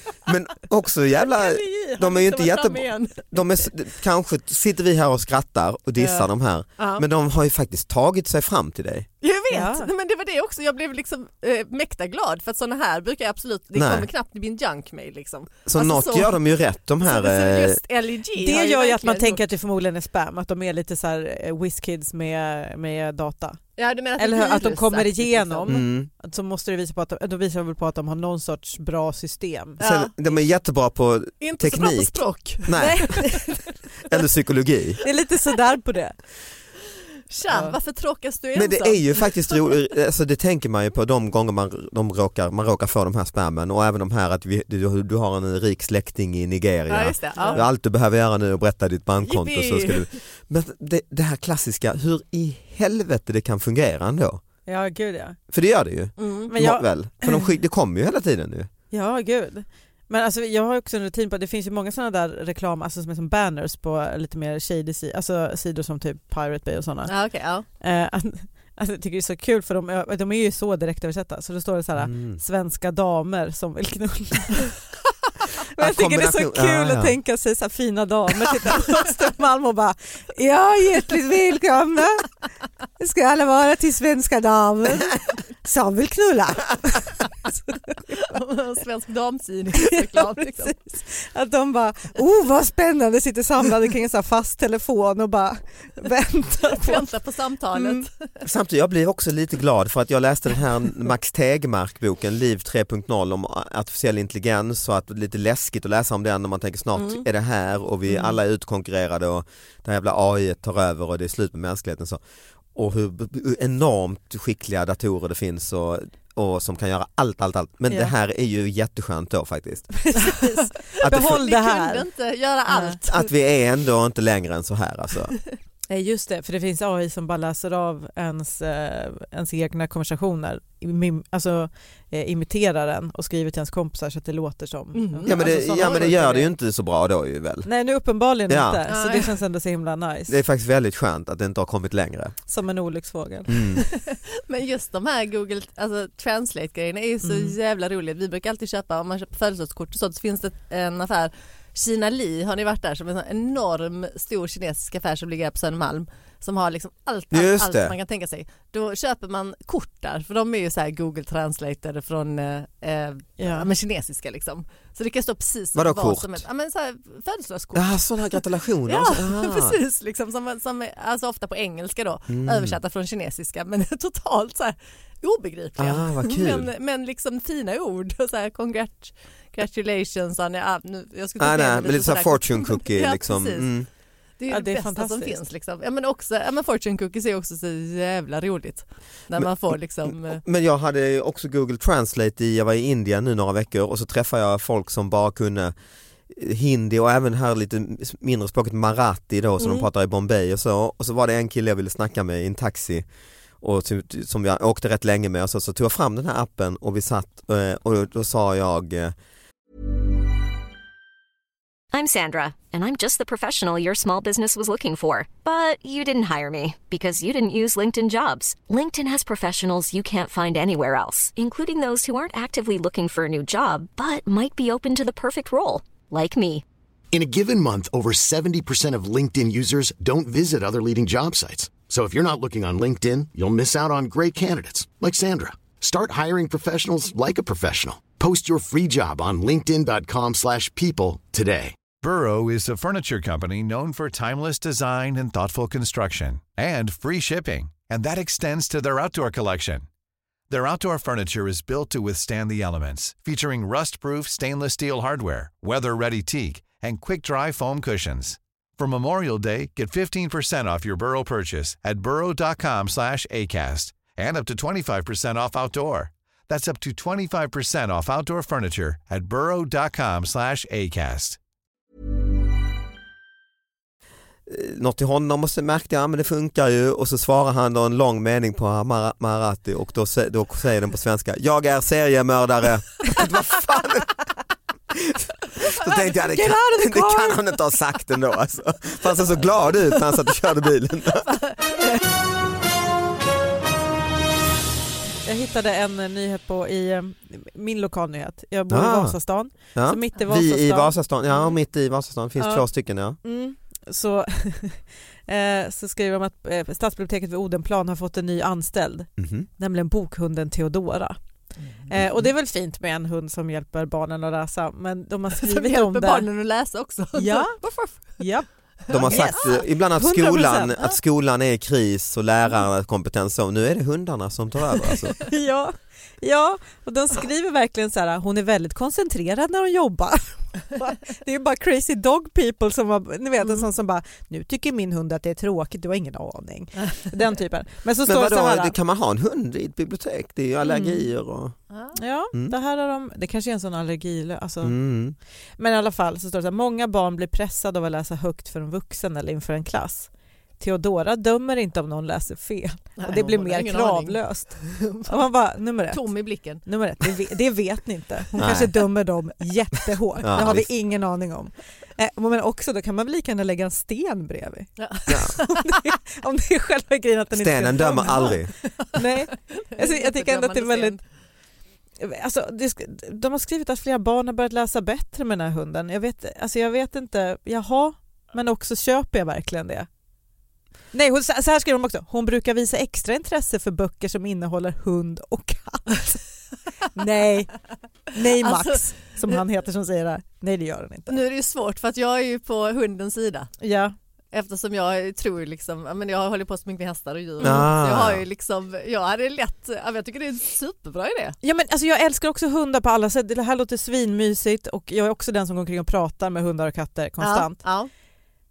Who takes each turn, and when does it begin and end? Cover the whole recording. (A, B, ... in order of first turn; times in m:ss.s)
0:00.3-0:09.1 A
0:01.3-0:03.7 B
0:06.0-0:06.3 B
0:06.8-0:07.0 B
0:09.2-0:16.4 B
0:09.5-0:09.9 C
0:13.8-0:14.1 A
0:15.7-0:17.8 A
0:17.0-0:19.4 B
0:18.4-0:23.6 C
0:23.8-0:25.7 B
0:24.2-0:29.8 C
0:25.7-0:26.1 A
0:29.8-0:30.2 B
0:29.8-0:33.2 A
0:31.4-0:33.4 B
0:32.8-0:33.6 C
0:34.1-0:35.0 A
0:35.0-0:36.2 C
0:37.3-0:39.8 B
0:37.5-0:37.8 C
0:38.6-0:54.4 A
0:46.9-0:47.6 B
0:47.4-0:47.6 C
0:49.2-0:50.1 B
0:54.7-0:55.4 C
0:55.5-0:58.7 A
0:56.2-0:56.5 B
0:56.5-0:57.3 C
0:58.9-1:07.1 C
1:07.1-1:07.7 B
1:07.8-1:14.7 C
1:12.0-1:12.4 A
1:15.8-1:22.3 C
1:15.8-1:17.2 A
1:23.0-1:28.3 C
1:28.3-1:30.8 B
1:29.9-1:37.1 C
1:36.7-1:38.3 B
1:37.8-1:38.1 C
1:38.4-1:52.2 A
1:48.1-1:48.4 C
1:52.8-2:00.1 A
2:00.0-2:02.1 C
2:00.9-2:03.3 B
2:01.0-2:01.5 A
2:03.1-2:05.4 A
2:05.9-2:16.5 C
2:14.9-2:16.1 B
2:15.3-2:17.7 A
2:17.7-2:20.3 C
2:18.5-2:18.8 A
2:18.9-2:19.4 B
2:20.3-2:22.4 A
2:22.5-2:23.6 C
2:23.5-2:23.8 A
2:23.9-3:03.7 B
2:27.2-2:27.5 C
2:37.3-2:38.0 A
2:43.4-2:43.7 C
2:45.8-2:46.4 A
2:47.7-2:49.8 A
2:52.3-2:52.8 A
2:55.8-2:56.7 A
3:01.4-3:03.9 A
3:04.4-3:10.4 B
3:04.5-3:05.4 C
3:10.1-3:15.7 A
3:16.3-3:23.0 A
3:23.6-3:29.1 A
3:31.9-3:46.6 D
3:47.1-4:01.8 E
4:02.0-4:09.9 F
4:10.5-4:31.4 F
4:34.5-4:44.2 A
4:44.9-4:51.4 A
4:46.2-4:47.4 C
4:51.2-4:52.0 B
4:55.2-5:00.9 C
4:58.7-4:59.2 A
4:59.8-5:03.2 A
5:02.4-5:02.7 C
5:03.2-5:11.2 C
5:09.2-5:09.5 A
5:11.9-5:16.3 C
5:15.4-5:18.2 B
5:17.2-5:20.8 C
5:18.9-5:19.6 B
5:18.9-5:25.2 A
5:25.2-5:38.7 C
5:38.0-5:41.6 A
5:40.7-5:40.9 C
5:41.7-5:42.0 B
5:42.0-5:44.8 C
5:44.6-5:45.2 A
5:45.6-5:56.0 C
5:53.0-5:55.2 B
5:55.9-5:56.6 B
5:56.6-6:08.4 C
5:58.4-5:58.8 A
6:00.2-6:00.7 A
6:04.8-6:05.2 B
6:07.4-6:08.5 A
6:08.9-6:11.0 C
6:09.6-6:11.0 B
6:12.0-6:19.9 C
6:20.9-6:26.2 C
6:26.9-6:27.5 C
6:28.1-6:31.2 C
6:28.4-6:29.4 B
6:31.1-6:33.6 B
6:33.6-6:33.9 C
6:34.3-6:41.4 B
6:37.4-6:38.2 A
6:41.4-6:47.6 C
6:47.2-6:47.9 B